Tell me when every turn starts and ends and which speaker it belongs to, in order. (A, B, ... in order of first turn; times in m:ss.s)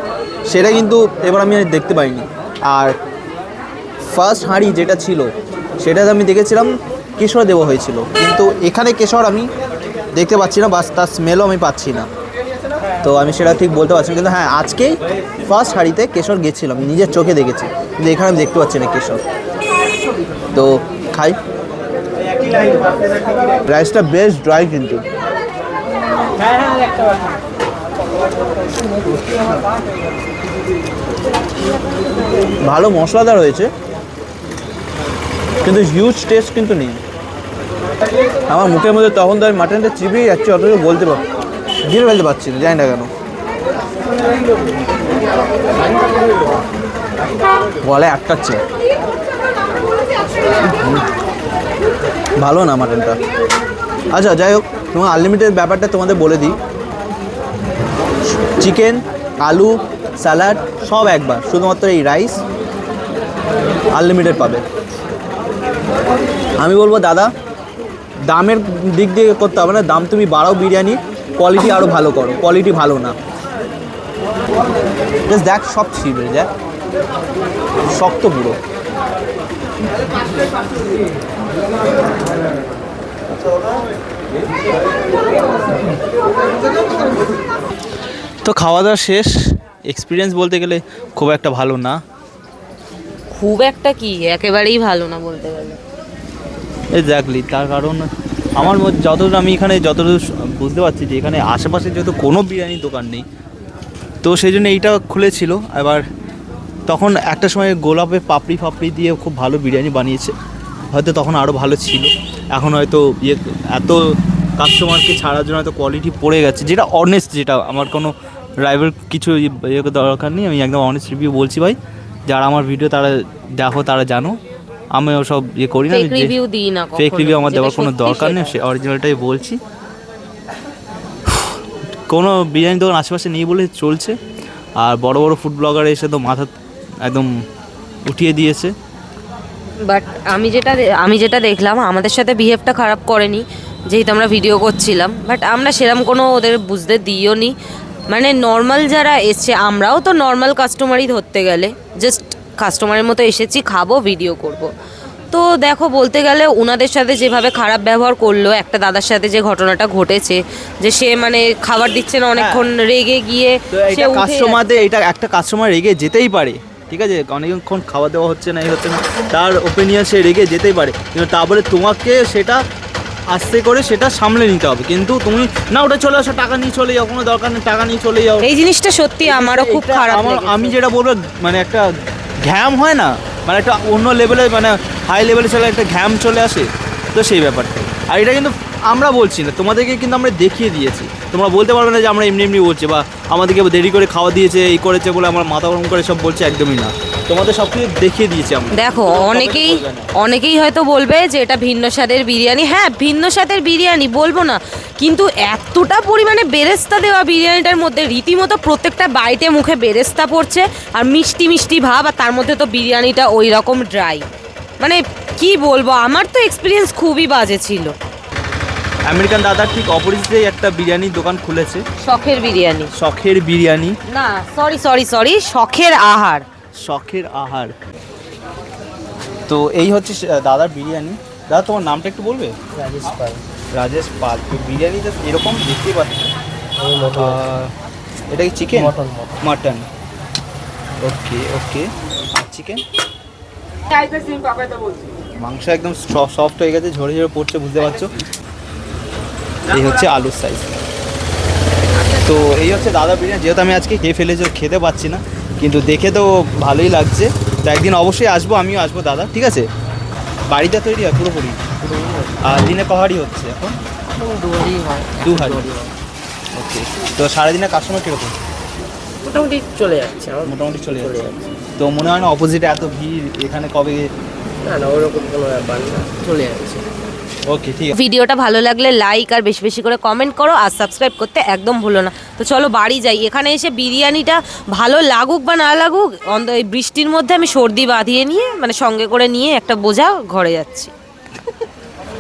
0:00.5-0:02.9 A
0:04.1-0:09.5 A
0:10.1-0:12.1 A
0:13.0-0:19.2 A
0:20.5-0:21.4 A
0:23.6-0:25.0 A
0:32.6-0:33.7 A
0:35.6-0:37.0 A
0:38.5-0:41.2 A
0:41.8-0:43.1 A
0:47.8-0:48.6 A
0:52.4-0:53.2 A
0:54.1-0:56.6 A
0:58.6-1:02.4 A
1:03.9-1:04.6 A
1:06.6-1:07.3 A
1:08.3-1:13.2 A
1:15.3-1:16.5 A
1:17.9-1:18.6 A
1:28.4-1:32.0 A
1:33.3-1:35.8 B
1:36.9-1:43.2 A
1:44.2-1:46.0 A
1:46.9-1:50.4 A
1:50.9-1:54.0 A
1:54.6-2:04.4 A
2:04.9-2:06.4 A
2:05.9-2:08.6 B
2:07.0-2:09.6 A
2:11.3-2:11.6 A
2:12.1-2:14.2 A
2:14.8-2:16.5 A
2:17.0-2:17.3 A
2:18.1-2:18.7 A
2:19.9-2:27.5 B
2:28.1-2:34.7 B
2:35.3-2:44.8 B
2:42.3-2:42.7 A
2:43.7-2:52.6 A
2:53.3-2:58.5 A
2:58.4-3:00.8 B
2:59.2-3:01.9 A
3:02.4-3:20.1 A
3:18.7-3:34.2 B
3:34.8-3:37.9 B
3:39.1-3:41.8 A
3:42.0-3:42.9 B
3:42.9-3:44.0 A
3:44.1-3:46.4 B
3:46.8-3:47.8 A
3:49.5-3:52.5 A
3:52.8-3:53.4 C
3:53.7-3:56.3 A
3:56.8-3:57.4 C
3:57.1-3:57.7 A
3:58.3-3:59.9 A
3:58.8-3:59.3 C
4:01.0-4:02.8 A
4:05.4-4:08.1 A
4:09.7-4:10.8 A
4:12.1-4:19.7 A
4:20.5-4:21.6 A
4:21.9-4:22.4 C
4:22.4-4:23.8 A
4:24.2-4:25.8 C
4:25.2-4:25.7 A
4:26.6-4:28.4 A
4:29.2-4:31.4 C
4:30.4-4:34.1 A
4:34.6-4:36.8 C
4:37.5-4:37.9 A
4:38.0-4:50.9 B